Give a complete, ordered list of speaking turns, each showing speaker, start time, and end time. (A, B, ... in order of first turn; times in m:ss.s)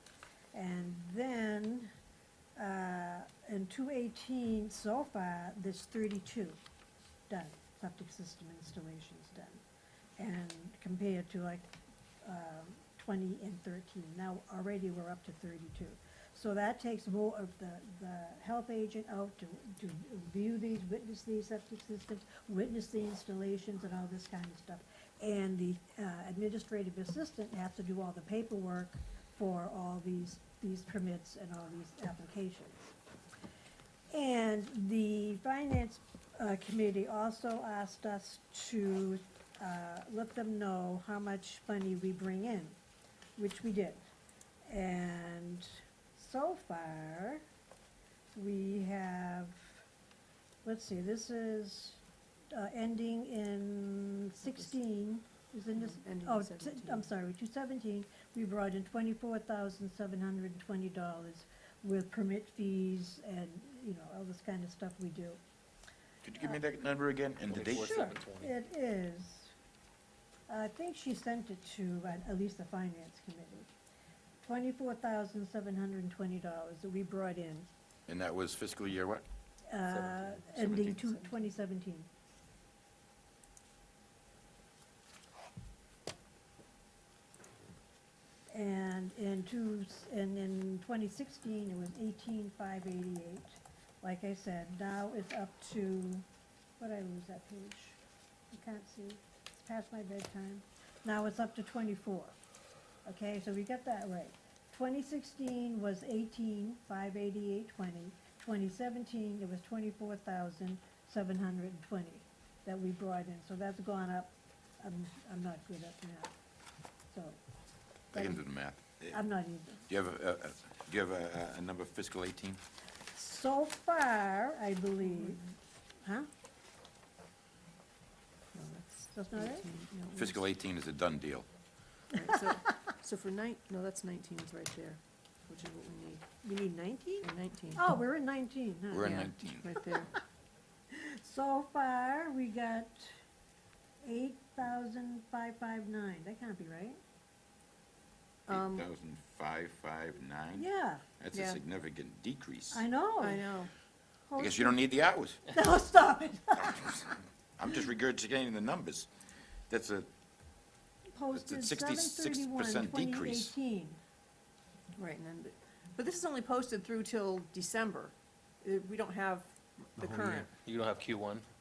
0:00.5-0:01.9 A
0:02.6-0:06.6 A
0:07.3-0:09.6 A
0:10.2-0:11.7 A
0:12.2-0:32.9 A
0:34.1-0:42.8 A
0:43.4-0:44.1 A
0:44.7-0:47.4 A
0:48.3-0:49.8 A
0:50.6-1:05.4 A
0:55.8-0:57.1 B
1:06.2-1:08.0 C
1:07.4-1:08.5 D
1:07.5-1:09.5 A
1:10.5-1:13.7 A
1:14.4-1:17.7 A
1:18.1-1:19.2 C
1:19.7-1:22.1 A
1:19.9-1:21.2 D
1:28.5-1:36.3 A
1:36.8-1:38.0 A
1:38.5-1:42.4 A
1:43.0-1:56.3 A
1:57.1-1:57.4 A
1:58.1-1:58.4 A
1:58.1-1:59.2 C
1:59.1-1:59.8 A
1:59.9-2:02.6 C
2:03.1-2:05.4 A
2:06.0-2:06.3 A
2:08.5-2:10.4 B
2:09.1-2:09.7 A
2:10.1-2:11.5 C
2:12.1-2:16.3 B
2:16.4-2:19.6 A
2:17.2-2:17.8 B
2:18.9-2:19.7 C
2:19.0-2:20.1 B
2:20.9-2:23.2 A
2:24.0-2:27.0 A
2:28.5-2:28.9 B
2:28.5-2:32.8 C
2:30.6-2:31.0 A
2:31.3-2:31.6 B
2:32.7-2:33.6 A
2:33.2-2:33.7 B
2:34.3-2:34.8 A
2:34.4-2:35.5 C
2:35.5-2:37.1 A
2:37.6-2:39.1 C
2:39.7-2:40.1 C
2:41.1-2:44.0 A
2:41.3-2:43.6 C
2:45.0-2:50.5 B
2:50.0-2:51.5 D